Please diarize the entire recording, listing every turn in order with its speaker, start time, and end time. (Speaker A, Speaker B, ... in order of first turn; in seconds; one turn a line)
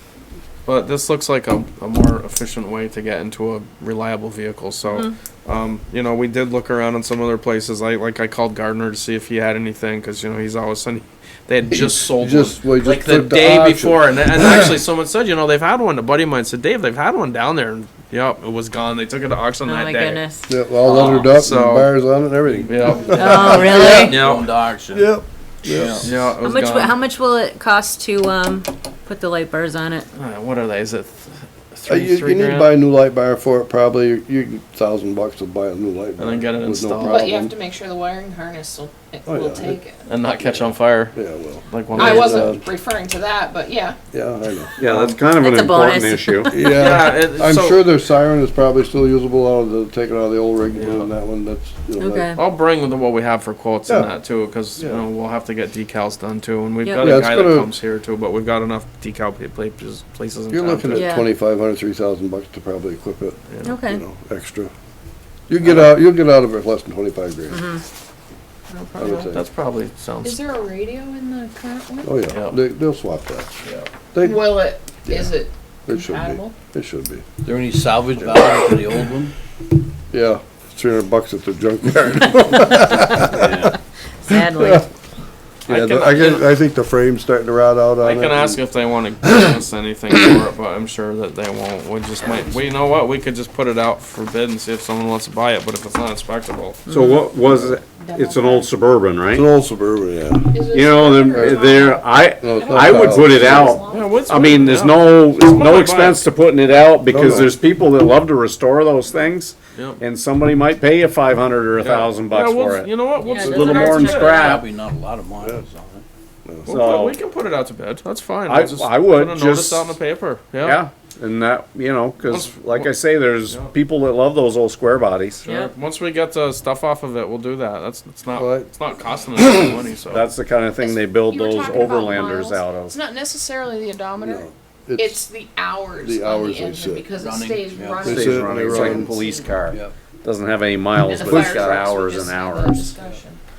Speaker A: 0.7-20.2
Speaker B: 11.7-14.8
Speaker C: 19.6-20.6
Speaker B: 20.5-24.2
Speaker A: 20.8-21.9
Speaker D: 20.8-21.4
Speaker A: 22.5-24.5
Speaker C: 23.1-24.0
Speaker D: 23.3-26.3
Speaker E: 23.9-24.1
Speaker B: 24.9-26.1
Speaker A: 26.0-27.0
Speaker C: 26.4-30.1
Speaker A: 30.1-32.7
Speaker B: 31.9-37.5
Speaker A: 36.2-37.3
Speaker E: 37.0-40.0
Speaker B: 39.3-42.6
Speaker A: 40.0-42.5
Speaker E: 42.0-44.0
Speaker B: 44.1-44.7
Speaker F: 44.8-46.5
Speaker A: 44.8-45.1
Speaker C: 45.4-46.6
Speaker B: 46.5-52.3
Speaker A: 46.6-47.9
Speaker A: 50.8-51.1
Speaker C: 52.0-52.4
Speaker A: 52.4-61.0
Speaker B: 53.9-54.1
Speaker B: 54.8-55.0
Speaker C: 56.8-57.2
Speaker B: 57.0-57.7
Speaker B: 60.5-64.7
Speaker C: 60.9-61.3
Speaker A: 63.5-63.7
Speaker C: 63.6-64.0
Speaker B: 65.5-67.6
Speaker A: 65.6-65.9
Speaker C: 67.5-67.8
Speaker C: 68.7-69.1
Speaker B: 68.9-69.4
Speaker A: 69.1-70.4
Speaker E: 70.2-72.1
Speaker B: 72.0-74.5
Speaker A: 72.3-72.6
Speaker A: 73.6-73.9
Speaker E: 74.2-76.5
Speaker B: 75.0-75.3
Speaker B: 75.9-77.2
Speaker D: 77.4-79.3
Speaker B: 78.2-78.7
Speaker B: 80.1-83.7
Speaker D: 83.3-83.8
Speaker C: 84.2-84.8
Speaker B: 84.3-84.8
Speaker B: 85.7-88.6
Speaker D: 85.7-86.4
Speaker A: 85.7-86.4
Speaker A: 88.0-96.9
Speaker B: 89.2-89.5
Speaker C: 96.9-97.2
Speaker F: 96.9-99.5
Speaker E: 98.0-98.7
Speaker B: 99.3-100.6
Speaker E: 100.5-104.3
Speaker F: 100.7-113.0
Speaker B: 101.3-101.6
Speaker B: 102.4-103.8
Speaker A: 103.9-106.2
Speaker B: 107.1-107.5
Speaker A: 109.7-110.0
Speaker A: 111.8-114.6
Speaker C: 113.2-114.6
Speaker B: 113.4-113.9
Speaker F: 113.5-114.6
Speaker D: 114.0-116.0
Speaker B: 116.4-116.7
Speaker A: 116.7-120.8
Speaker F: 116.7-117.2
Speaker F: 118.5-120.0
Speaker F: 120.6-125.4
Speaker A: 122.2-122.9
Speaker A: 125.4-130.3
Speaker C: 125.5-125.7
Speaker B: 128.3-128.7
Speaker B: 129.3-129.8
Speaker F: 130.1-133.0
Speaker E: 130.8-139.6
Speaker B: 134.2-135.2
Speaker B: 136.0-137.1
Speaker D: 137.2-138.9
Speaker B: 138.0-139.2
Speaker F: 138.1-142.9
Speaker D: 139.6-139.9
Speaker E: 141.0-143.4